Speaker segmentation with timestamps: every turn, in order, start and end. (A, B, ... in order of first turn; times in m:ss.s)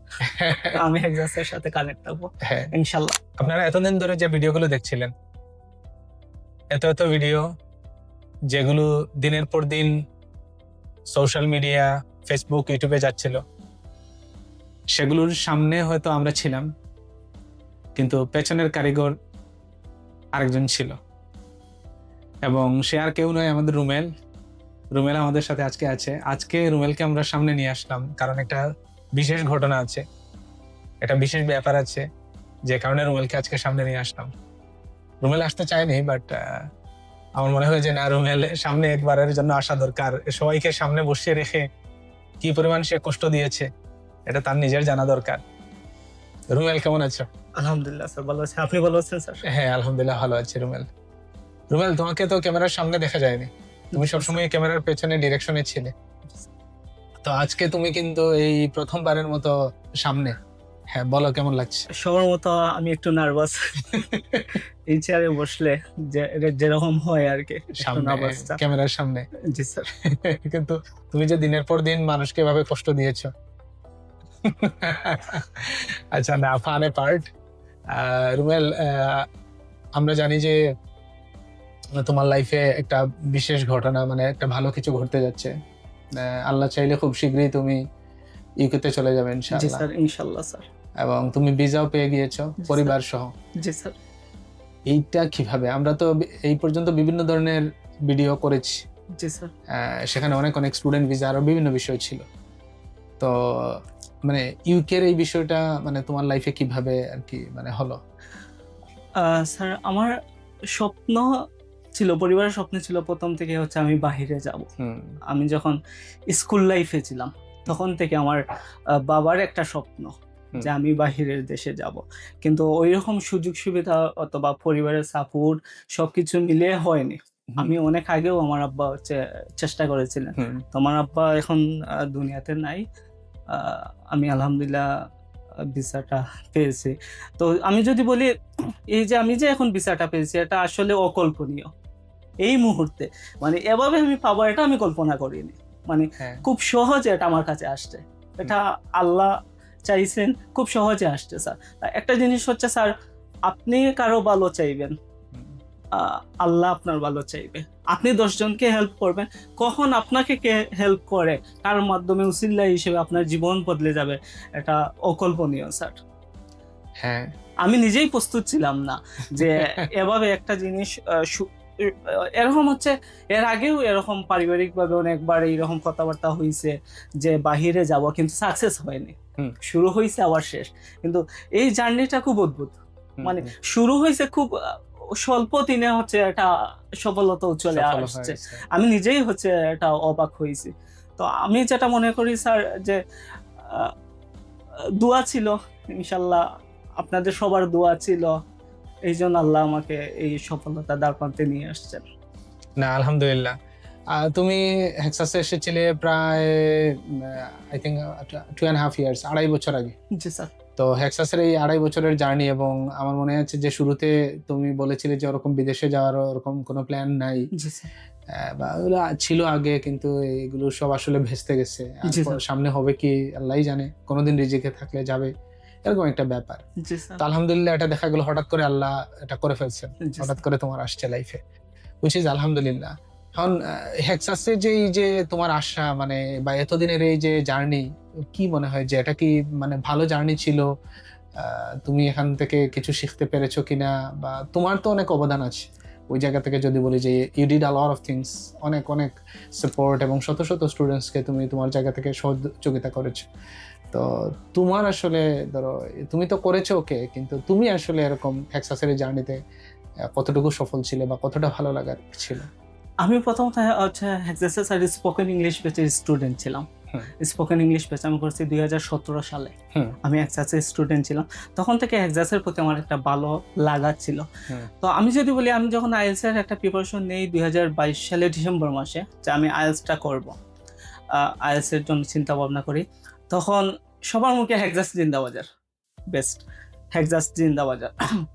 0:00.2-0:00.8 A
0:00.7-0:03.2 B
0:02.4-0:02.7 A
0:03.4-0:05.1 A
0:06.7-0:07.4 A
0:08.5-0:09.9 A
0:11.1-0:13.4 A
0:14.9-0:16.7 A
0:18.0-0:19.1 A
0:20.3-0:21.0 A
0:22.5-0:24.1 A
0:24.9-0:28.6 A
0:29.1-0:30.0 A
0:31.0-0:32.0 A
0:32.7-0:34.3 A
0:35.2-0:36.6 A
0:37.4-0:41.6 A
0:42.4-0:43.7 A
0:44.3-0:45.4 A
0:46.5-0:47.3 A
0:47.6-0:49.4 B
0:49.5-0:50.9 A
0:51.7-0:55.9 A
0:53.9-0:54.4 B
0:57.2-1:00.3 A
1:00.9-1:01.9 A
1:02.0-1:04.1 B
1:04.0-1:04.6 A
1:04.9-1:08.6 B
1:07.8-1:09.2 A
1:09.5-1:09.9 B
1:10.0-1:13.3 A
1:14.4-1:17.3 A
1:17.9-1:19.2 A
1:20.0-1:20.6 A
1:22.0-1:25.5 A
1:26.1-1:27.8 A
1:28.6-1:29.8 A
1:29.5-1:30.6 B
1:31.0-1:33.3 A
1:32.6-1:32.9 B
1:33.6-1:34.0 B
1:34.9-1:38.7 A
1:39.2-1:39.5 B
1:39.7-1:42.2 A
1:43.2-1:48.0 A
1:49.2-1:50.1 B
1:50.7-1:51.3 B
1:52.0-1:54.7 B
1:54.8-1:55.2 A
1:55.3-1:55.8 B
1:56.3-1:58.4 B
1:59.0-2:12.8 B
2:10.4-2:10.6 A
2:13.5-2:14.9 B
2:15.7-2:18.3 B
2:18.9-2:21.7 B
2:22.4-2:29.3 B
2:26.2-2:26.4 A
2:29.8-2:32.9 B
2:33.5-2:34.9 B
2:35.9-2:46.0 B
2:47.0-2:47.3 A
2:47.6-3:04.5 B
2:49.4-2:49.9 A
3:03.2-3:03.5 A
3:05.2-3:13.0 B
3:07.7-3:08.6 A
3:15.0-3:16.4 B
3:17.0-3:18.4 B
3:19.1-3:22.0 B
3:22.8-3:23.5 A
3:24.1-3:29.9 A
3:30.1-3:30.5 B
3:30.8-3:37.5 A
3:37.5-3:37.9 B
3:38.3-3:45.3 A
3:42.1-3:42.4 B
3:45.8-3:46.6 A
3:46.8-3:47.2 B
3:47.2-3:51.4 A
3:50.0-3:50.4 B
3:52.0-4:00.6 A
4:01.4-4:13.2 A
4:13.9-4:19.4 A
4:20.1-4:22.5 A
4:23.0-4:29.5 B
4:30.0-4:34.3 B
4:34.8-4:40.3 B
4:41.1-4:45.5 B
4:46.1-4:48.0 B